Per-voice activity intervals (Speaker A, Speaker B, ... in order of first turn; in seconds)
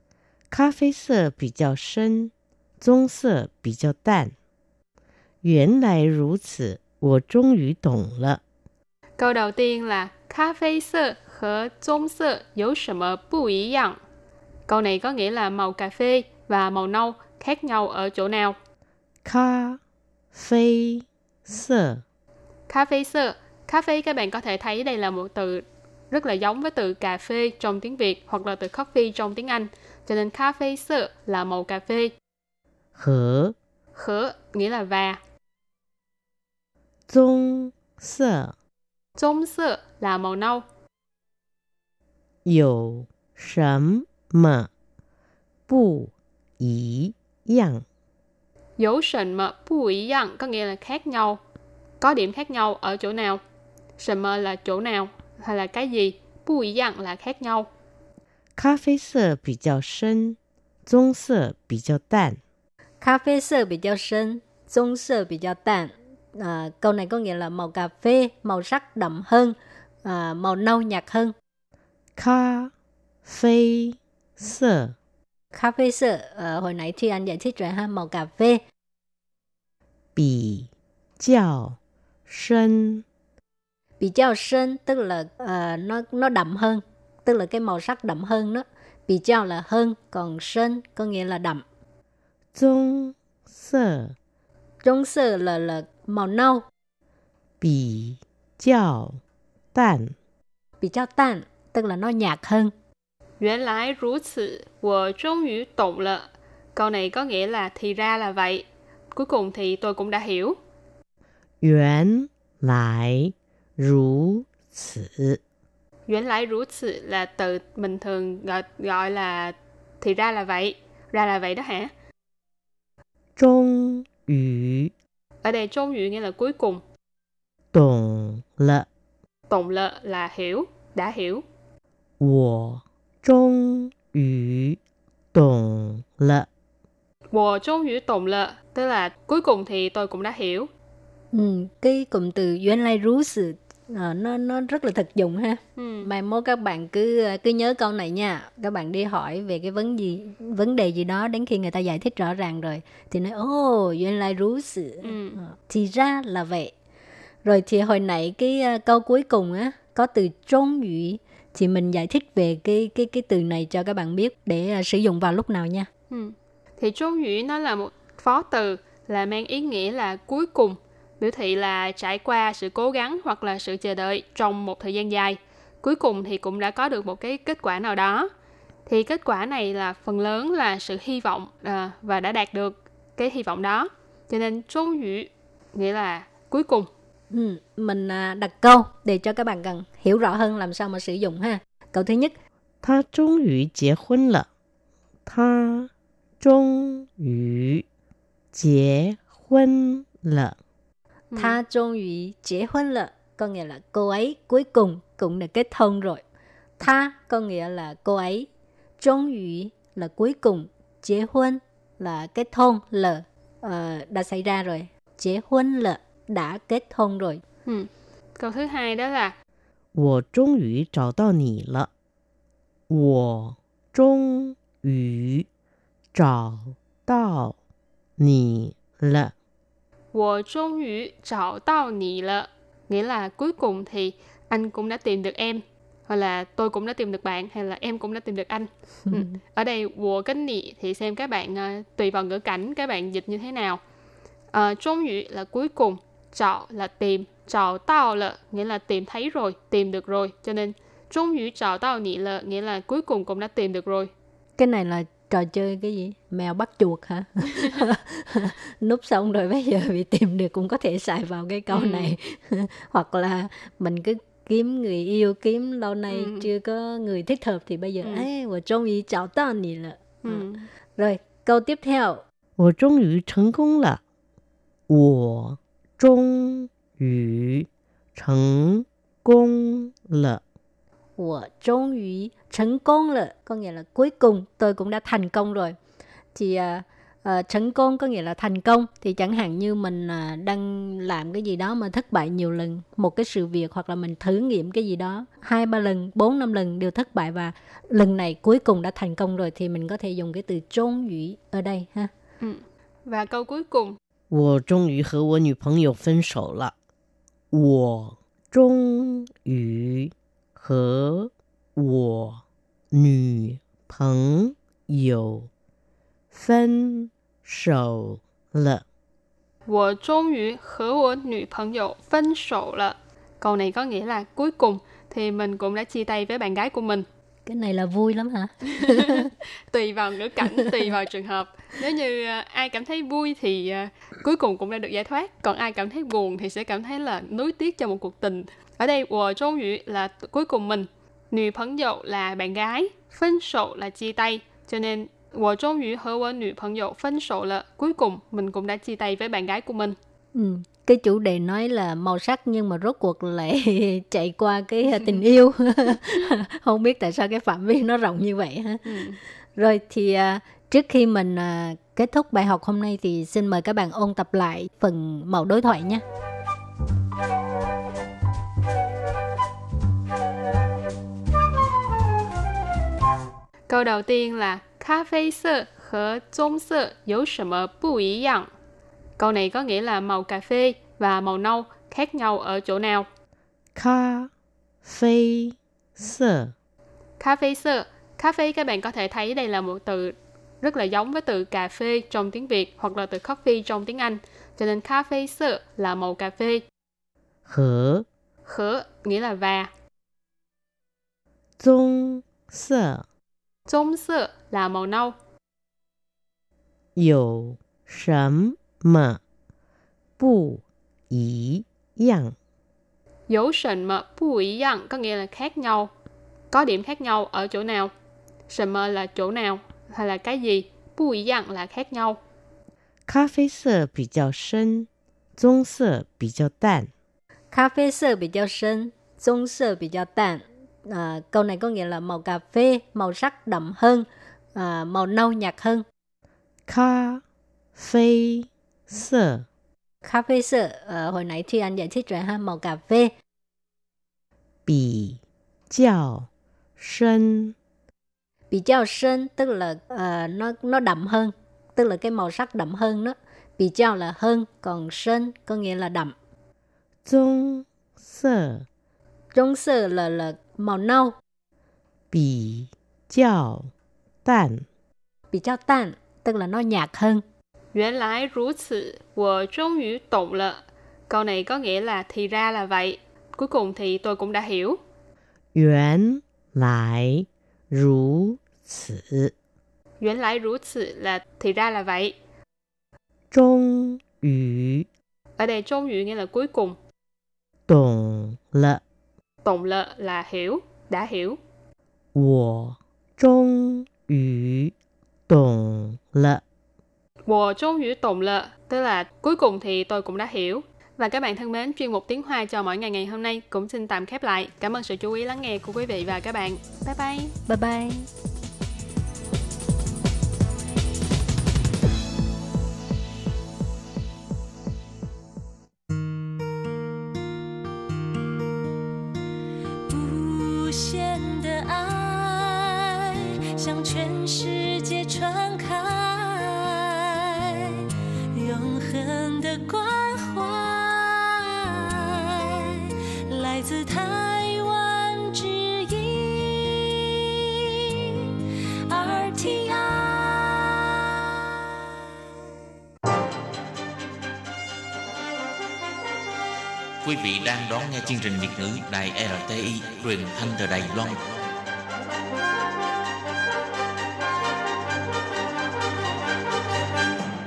Speaker A: 0.5-4.3, 5.4-8.4, 19.2-19.8, 20.3-22.0, 32.9-33.5, 37.1-38.5, 42.4-44.7, 45.7-47.8, 58.5-62.4, 72.2-72.7, 73.2-74.9, 80.2-83.0, 92.5-94.1, 97.6-99.2, 99.7-100.1, 111.6-115.4, 123.4-124.9, 127.7-128.9, 132.2-134.8, 135.3-136.5, 192.8-194.5, 195.2-197.8, 198.5-200.6, 219.9-221.9, 222.9-225.5, 226.1-227.6, 228.2-229.3, 272.6-274.0, 274.9-280.4, 304.3-306.7, 307.5-315.5, 316.3-318.8, 383.7-384.3, 384.8-386.5, 397.4-398.1, 401.6-403.0, 406.9-409.2, 410.2-412.4, 423.1-426.9, 436.7-437.2, 437.8-439.4, 444.6-445.2, 445.7-447.5, 457.0-458.6, 462.1-463.7, 464.2-464.7, 475.5-479.3, 483.3-484.9, 487.7-488.8, 492.1-494.7, 495.3-496.4
Speaker B: 9.2-14.0, 14.7-18.6, 22.7-32.1, 34.0-35.2, 39.2-40.6, 48.8-51.4, 52.0-53.4, 54.0-57.7, 103.4-110.6, 116.1-121.9, 125.4-126.8, 129.5-131.4, 137.3-140.7, 145.8-146.1, 155.0-155.4, 166.1-178.3, 178.8-186.9, 201.3-201.6, 217.7-219.3, 230.1-243.8, 244.5-254.1, 261.7-262.1, 266.1-266.5, 270.2-270.6, 302.4-304.0, 319.7-327.1, 328.9-350.0, 358.8-359.2, 373.7-378.5, 379.2-383.1, 387.2-396.6, 398.5-399.7, 403.7-405.1, 413.3-415.9, 416.5-417.9, 418.5-422.2, 467.7-474.8, 480.0-482.1, 485.4-486.8, 489.4-491.4, 497.3-507.3
Speaker C: 63.0-71.3, 75.5-78.6, 84.0-91.6, 94.8-96.6, 100.8-102.7, 141.3-156.7, 157.4-165.9, 187.3-192.3, 201.3-206.2, 206.8-208.5, 209.0-217.4, 254.6-270.4, 270.9-272.2, 281.2-285.8, 286.3-302.1, 327.4-329.3, 350.3-358.9, 359.5-366.0, 427.5-435.9, 440.0-443.1, 448.5-456.1, 459.3-461.1, 465.3-467.2, 507.5-508.1
Speaker D: 519.9-537.4, 538.9-541.3
Speaker E: 547.0-551.4